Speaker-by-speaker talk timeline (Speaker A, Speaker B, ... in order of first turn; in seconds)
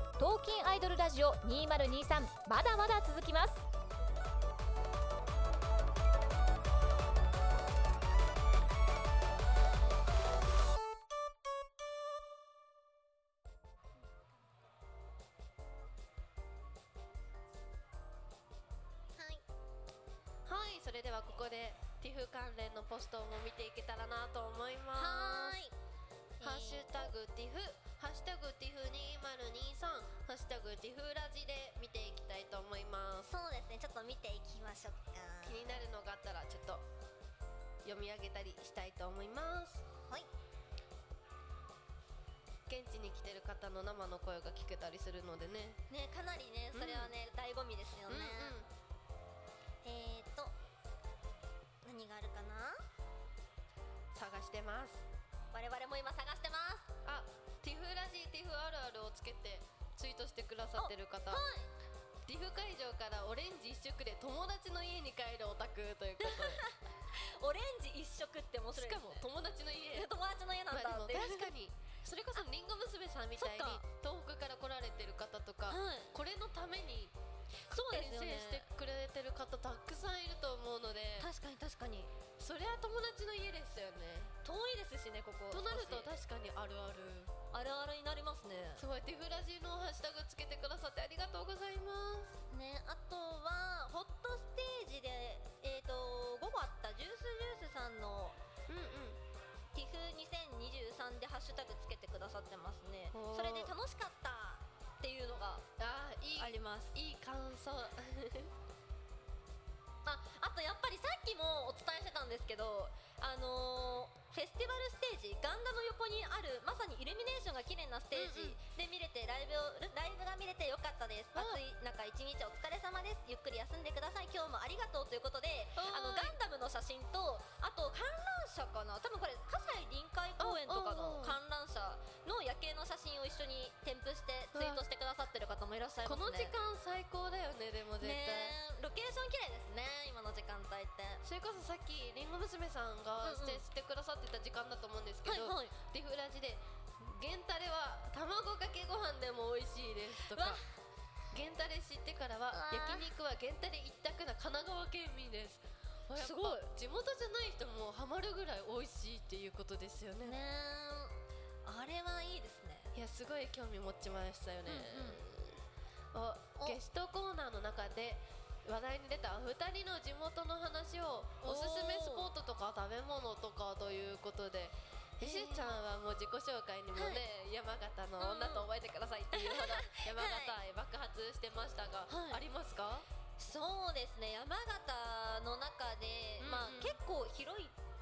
Speaker A: 0.2-3.6
Speaker B: 19.2-19.4, 24.9-25.8, 26.4-27.1, 33.3-35.8, 40.0-40.3, 45.9-48.6, 49.8-50.5, 51.8-52.8, 55.5-56.9, 60.8-61.7, 66.2-69.2, 69.9-71.5, 73.4-73.8, 75.7-76.1, 77.7-78.7, 81.2-82.2, 84.4-86.1, 87.5-88.8, 92.5-98.4, 99.7-105.7, 106.4-107.0, 110.0-136.6, 138.0-141.2, 143.2-143.6, 145.2-145.8, 150.3-150.6, 152.5-153.1, 156.2-156.7, 160.2-162.9, 164.7-165.2, 171.4-172.3, 175.2-175.8, 176.9-177.2, 178.2-178.7, 179.3-180.6, 182.1-182.4, 183.4-187.8
Speaker C: 20.4-25.6, 26.4-33.3, 35.4-36.8, 37.8-39.9, 42.7-45.8, 46.7-47.1, 48.1-48.7, 54.1-55.1, 57.0-61.4, 62.3-66.6, 68.8-70.1, 70.7-77.1, 77.7-81.3, 82.4-84.3, 85.5-87.3, 88.8-92.4, 98.7-99.2, 103.1-103.7, 105.8-108.5, 118.1-118.6, 121.4-121.6, 125.8-126.4, 130.4-131.4, 134.6-134.8, 136.1-138.6, 141.2-150.6, 151.3-160.4, 162.9-165.6, 166.1-183.1, 186.4-187.0